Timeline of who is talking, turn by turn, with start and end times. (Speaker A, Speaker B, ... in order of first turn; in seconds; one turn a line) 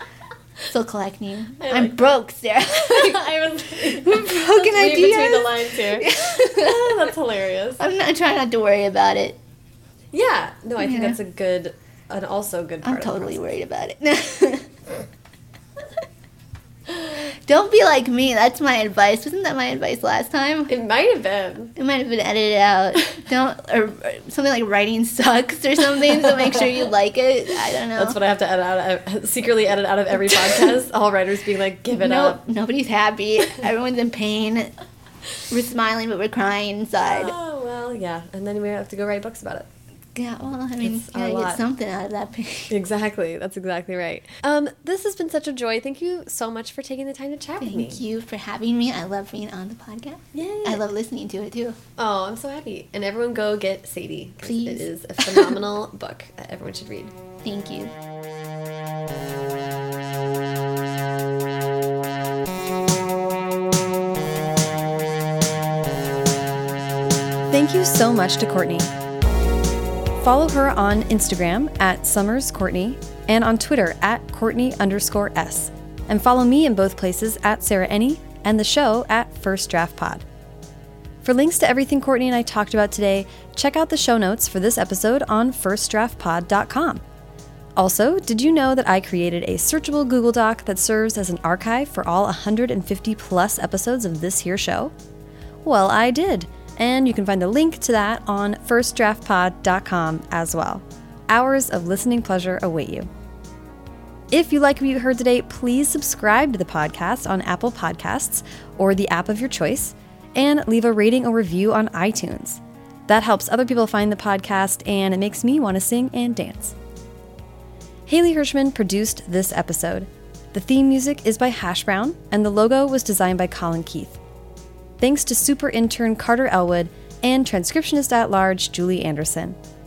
Speaker A: 0.7-7.1
Speaker B: 1.6-2.1
Speaker B: 2.7-7.8
Speaker A: 7.8-9.4
Speaker B: 10.1-13.4
Speaker A: 10.8-11.2
Speaker A: 12.8-14.7
Speaker A: 17.4-20.7
Speaker B: 20.7-21.7
Speaker A: 21.8-28.2
Speaker B: 27.9-32.4
Speaker A: 31.9-34.7
Speaker A: 35.4-37.4
Speaker B: 37.0-39.7
Speaker A: 40.1-42.7
Speaker B: 40.8-41.6
Speaker B: 42.7-48.0
Speaker A: 47.6-51.8
Speaker B: 50.3-50.8
Speaker B: 52.0-57.1
Speaker A: 54.4-55.6
Speaker A: 57.4-57.9
Speaker B: 67.5-68.9
Speaker B: 70.2-80.2
Speaker B: 81.2-87.0
Speaker B: 87.8-94.9
Speaker B: 95.6-103.1
Speaker B: 104.3-116.8
Speaker B: 118.1-124.2
Speaker B: 125.0-129.6